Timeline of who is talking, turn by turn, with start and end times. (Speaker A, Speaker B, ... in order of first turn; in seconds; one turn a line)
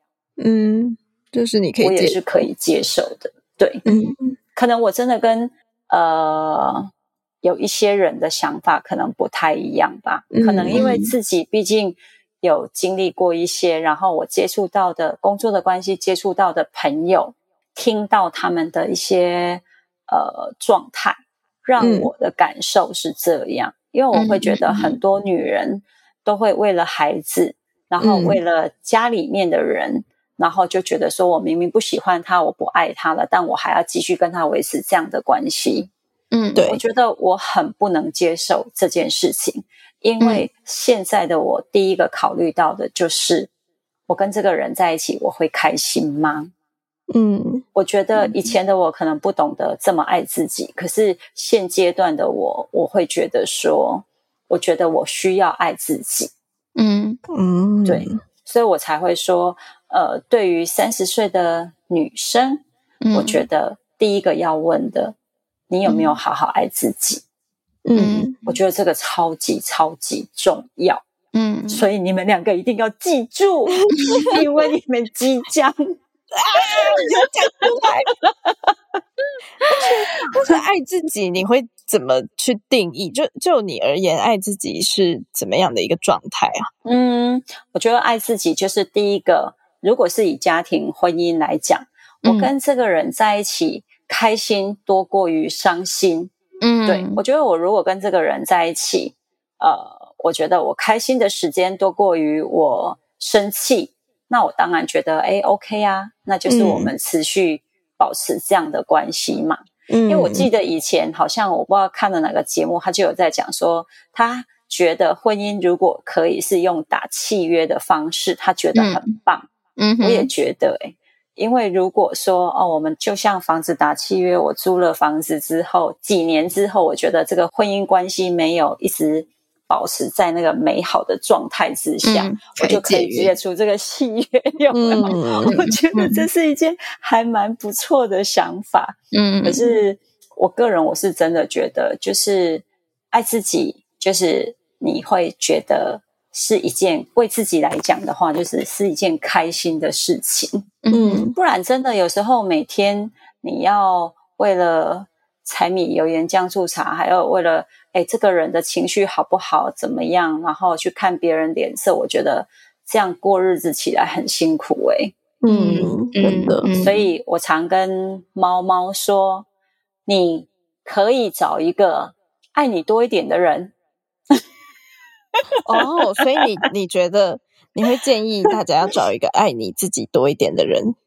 Speaker A: 0.4-2.2
Speaker B: 1.8-3.8
Speaker A: 3.8-4.3
Speaker B: 4.5-6.9
Speaker B: 7.4-35.9
Speaker A: 10.3-10.8
Speaker C: 10.7-11.1
Speaker A: 21.8-22.1
Speaker C: 24.1-25.0
Speaker A: 28.0-28.4
Speaker C: 36.3-36.6
Speaker A: 36.5-36.8
Speaker B: 36.6-43.5
Speaker C: 40.2-40.5
Speaker B: 44.1-46.5
Speaker A: 47.1-47.6
Speaker B: 47.7-56.3
Speaker C: 56.8-57.2
Speaker A: 57.3-58.2
Speaker B: 57.9-65.2
Speaker C: 63.0-63.4
Speaker B: 65.7-67.2
Speaker C: 65.9-66.1
Speaker A: 67.8-68.4
Speaker C: 68.0-68.3
Speaker B: 68.5-71.0
Speaker C: 71.3-71.8
Speaker B: 71.7-76.0
Speaker A: 76.3-78.1
Speaker B: 76.6-77.0
Speaker A: 79.7-86.7
Speaker B: 79.8-80.5
Speaker B: 86.8-96.3
Speaker C: 92.2-92.5
Speaker C: 96.6-97.2
Speaker B: 96.9-119.5
Speaker A: 106.5-106.9
Speaker A: 109.9-110.5
Speaker C: 118.8-119.1
Speaker C: 119.8-120.3
Speaker B: 120.0-150.7
Speaker C: 132.0-133.3
Speaker A: 134.7-135.6
Speaker C: 135.4-136.2
Speaker C: 139.1-139.7
Speaker C: 150.8-151.3
Speaker A: 150.9-151.3
Speaker B: 151.3-165.1
Speaker A: 165.4-166.7
Speaker C: 165.5-167.0
Speaker B: 166.7-169.4
Speaker B: 170.1-173.7
Speaker A: 175.6-180.9